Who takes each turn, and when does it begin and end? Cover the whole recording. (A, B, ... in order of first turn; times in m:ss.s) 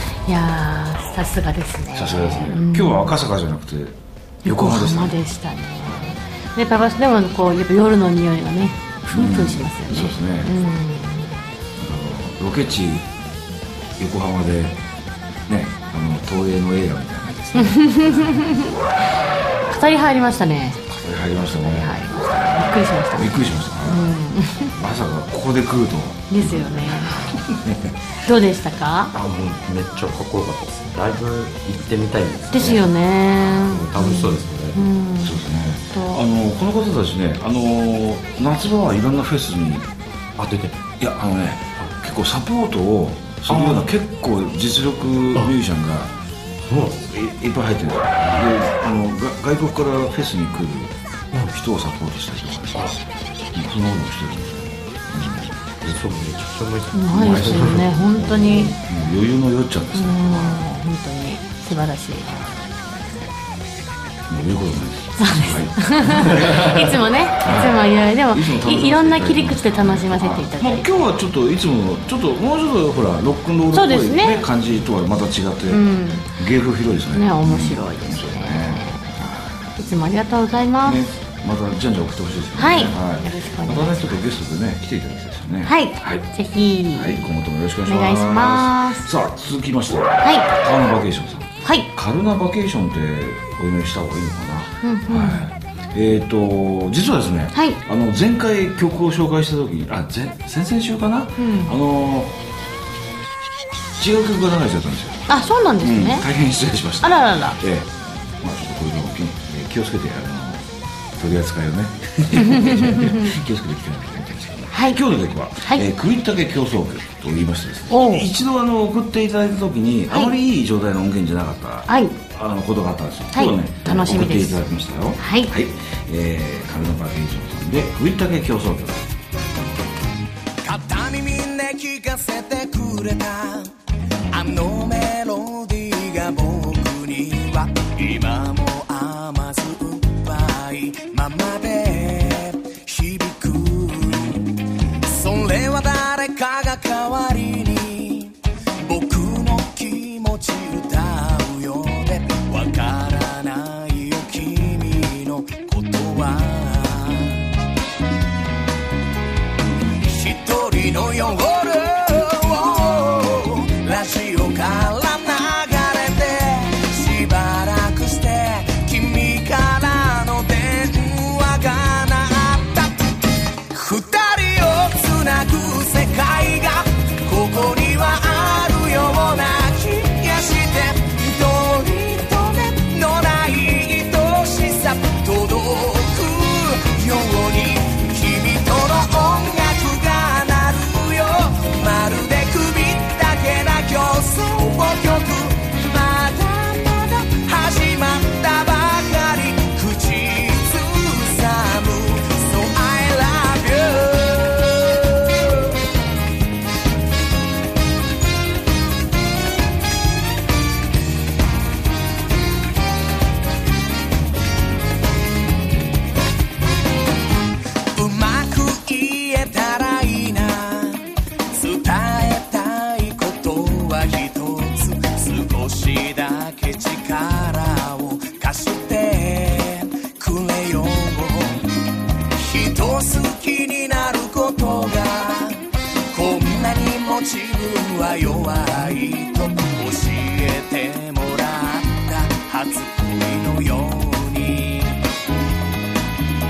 0:00.3-0:03.1 A
0:01.9-0:05.2 B
0:04.4-0:11.3 A
0:05.8-0:06.1 B
0:09.1-0:10.5 B
0:11.8-0:13.1 B
0:14.0-0:14.8 B
0:15.5-0:18.5 B
0:17.5-0:18.8 A
0:19.7-0:20.8 A
0:20.9-0:24.1 B
0:21.6-0:24.7 A
0:24.7-0:27.9 B
0:26.3-0:27.2 A
0:28.2-0:29.1 A
0:29.1-0:32.9 C
0:32.5-0:35.4 A
0:33.5-0:34.8 C
0:35.2-0:39.9 B
0:35.9-0:36.2 A
0:40.4-0:40.8 C
0:41.0-0:46.1 B
0:43.5-0:43.9 C
0:46.7-0:47.0 C
0:47.1-0:50.9 B
0:51.5-0:53.0 B
0:53.5-0:56.0 B
0:55.8-0:58.5 C
0:56.9-0:58.7 A
0:57.1-1:00.8 B
0:59.9-1:02.3 A
1:02.2-1:02.7 B
1:04.3-1:19.8 B
1:05.2-1:11.1 A
1:06.3-1:06.8 C
1:13.7-1:14.4 A
1:15.7-1:16.3 A
1:17.1-1:19.0 A
1:19.8-1:21.0 A
1:20.8-1:26.2 B
1:22.6-1:24.2 A
1:25.6-1:27.3 A
1:26.9-1:42.3 B
1:27.8-1:29.0 A
1:34.8-1:35.4 A
1:37.5-1:37.8 A
1:41.4-1:41.7 A
1:44.0-1:50.6 B
1:45.3-1:46.2 A
1:47.0-1:47.6 A
1:51.2-2:09.1 B
1:52.4-1:53.3 A
1:54.7-1:55.0 A
1:55.6-1:55.8 A
1:57.9-1:58.3 A
2:01.9-2:02.1 A
2:03.3-2:04.6 A
2:05.2-2:05.5 A
2:10.6-2:13.7 D
2:14.3-2:37.4 D
2:40.0-3:25.7 D
3:37.9-3:51.7 D
3:52.3-4:05.0 D